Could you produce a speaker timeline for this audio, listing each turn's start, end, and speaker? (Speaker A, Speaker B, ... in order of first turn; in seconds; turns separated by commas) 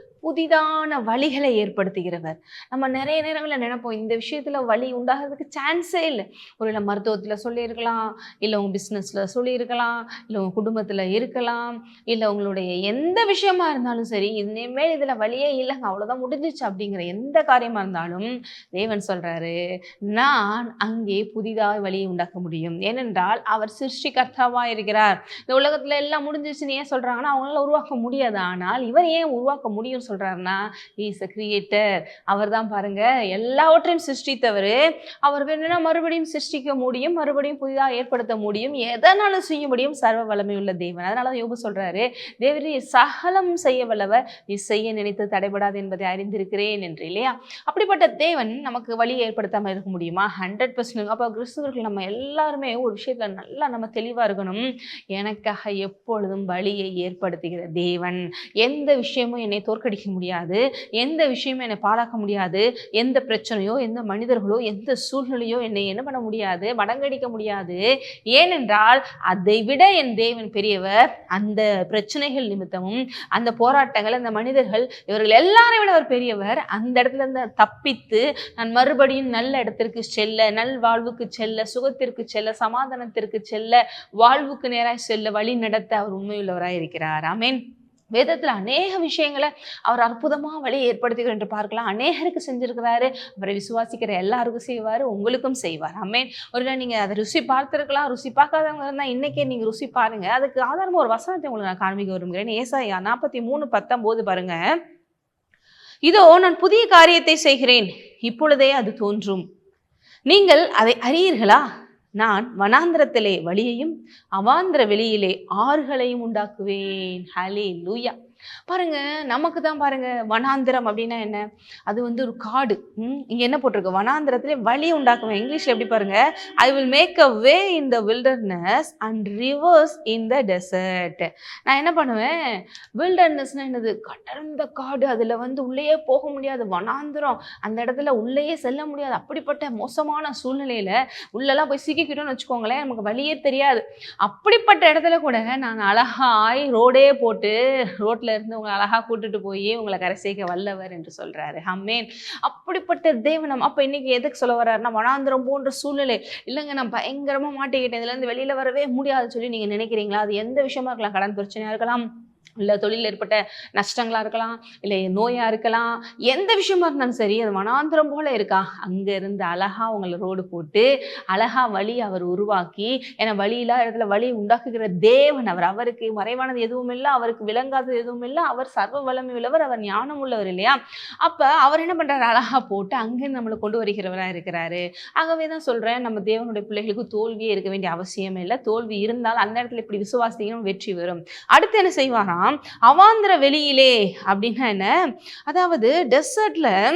Speaker A: 0.2-19.6, Speaker A: 20.1-87.6, Speaker A: 88.1-104.6, Speaker A: 106.0-109.5, Speaker A: 110.3-111.6, Speaker A: 112.2-118.2, Speaker A: 118.7-132.3, Speaker A: 133.0-162.1, Speaker A: 162.6-194.9, Speaker A: 195.5-196.8